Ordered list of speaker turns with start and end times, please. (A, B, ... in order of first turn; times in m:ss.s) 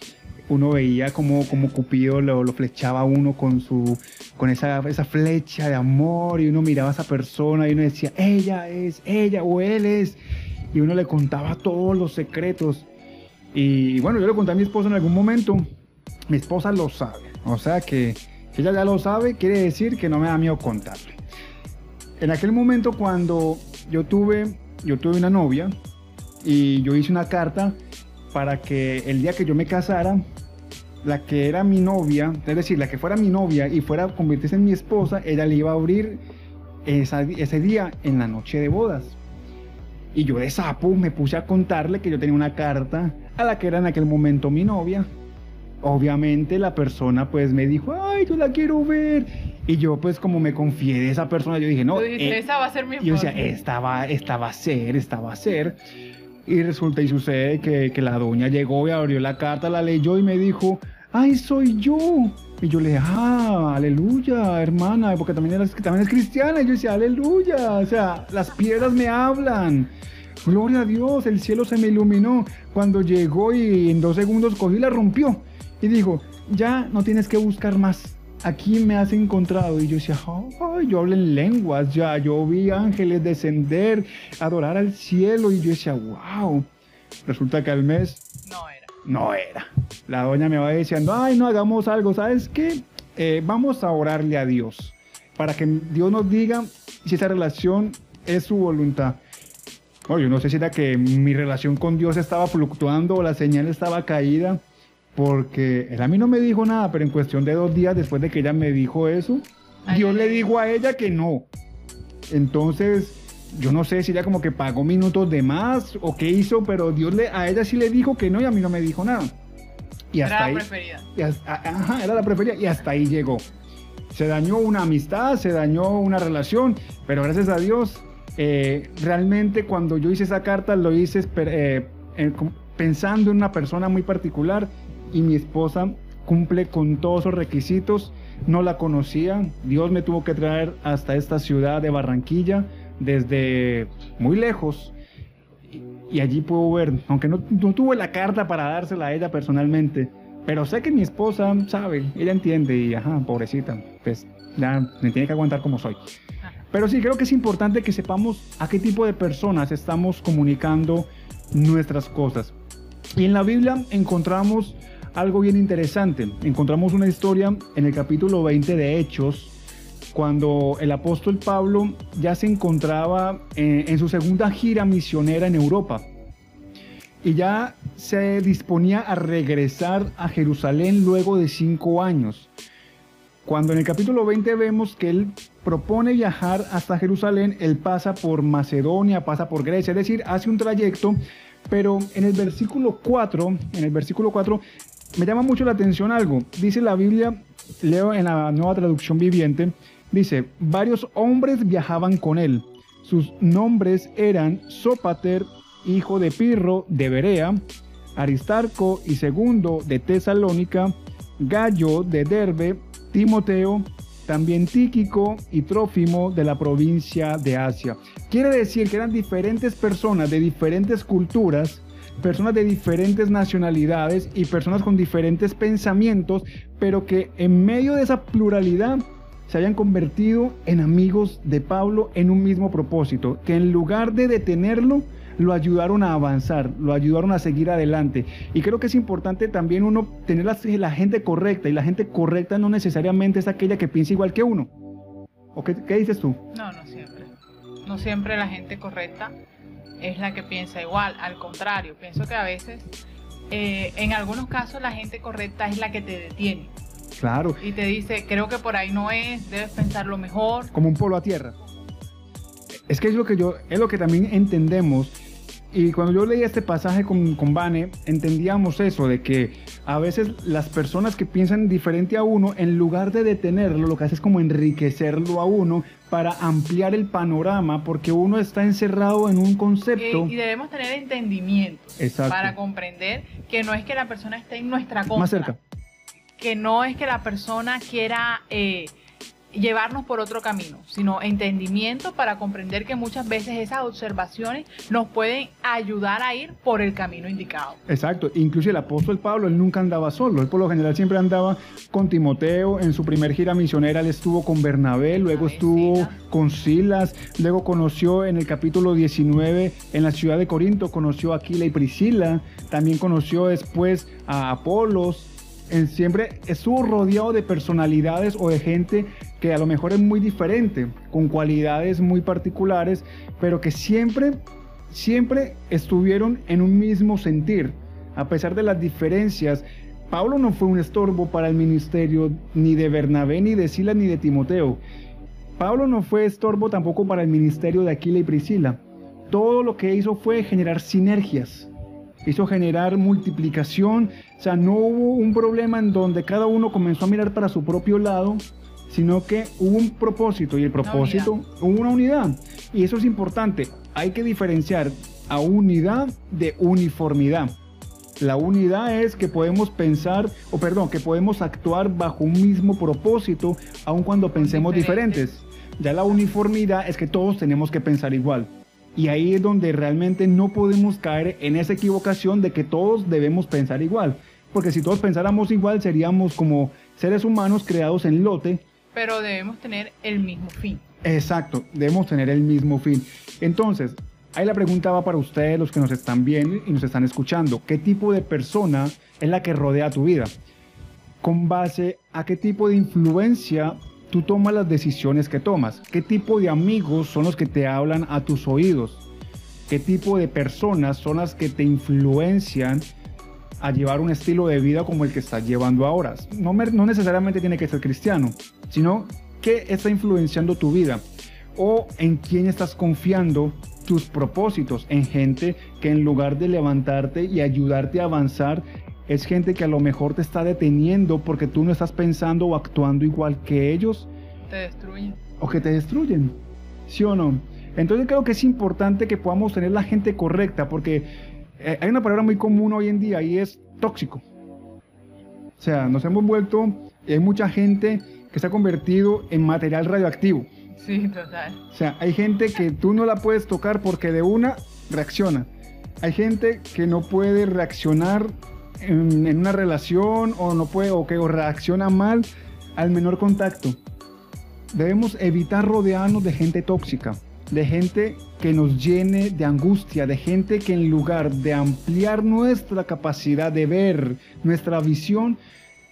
0:00.5-0:10.2 A
0:10.7-0:12.9 A
0:13.5-0:15.7 A
0:16.3-0:21.1 A
0:22.2-0:25.7 A
0:26.4-0:27.8 A
0:28.3-0:30.2 A
0:31.0-0:36.2 A
0:36.8-0:39.2 A
0:40.1-0:45.1 A
0:45.8-0:52.4 A
0:51.9-0:53.5 B
0:53.0-0:55.8 A
0:56.4-1:09.9 A
1:10.4-1:26.7 A
1:27.2-1:28.2 A
1:28.4-1:28.9 B
1:29.0-1:39.2 A
1:40.1-1:44.6 A
1:45.1-1:51.5 A
1:49.8-1:50.5 B
1:52.3-1:59.3 A
2:00.1-2:03.4 A
2:00.2-2:01.1 B
2:04.1-2:24.9 A
2:25.7-2:36.0 A
2:36.7-2:42.5 A
2:43.1-2:49.5 A
2:50.1-2:56.1 A
2:57.2-3:02.5 A
3:03.4-3:11.2 A
3:11.7-3:14.6 A
3:15.2-3:27.6 A
3:28.2-4:04.7 A
4:05.5-4:06.4 A
4:06.5-4:07.3 B
4:07.8-4:09.3 B
4:10.0-4:12.9 B
4:13.5-4:16.7 B
4:17.2-4:17.6 A
4:17.6-4:20.7 B
4:20.7-4:21.6 A
4:22.9-4:25.1 A
4:25.7-4:40.3 A
4:40.0-4:45.5 B
4:42.0-4:42.6 A
4:45.1-4:45.6 A
4:46.4-4:48.9 B
4:49.5-4:57.8 B
4:57.9-5:34.8 A
5:05.1-5:06.2 B
5:35.6-5:41.7 A
5:42.2-5:57.5 A
5:50.8-5:51.3 B
5:58.2-6:18.6 A
6:04.4-6:05.3 B
6:18.9-6:20.8 B
6:21.0-6:30.3 A
6:31.2-6:39.0 A
6:39.7-6:42.8 A
6:43.6-6:51.0 A
6:51.6-7:04.1 A
7:04.5-7:05.2 B
7:05.4-7:06.3 A
7:06.9-7:14.2 A
7:15.6-7:20.5 A
7:20.7-7:21.6 B
7:21.7-7:25.5 A
7:26.0-7:32.2 A
7:32.8-7:33.8 A
7:34.7-7:45.4 A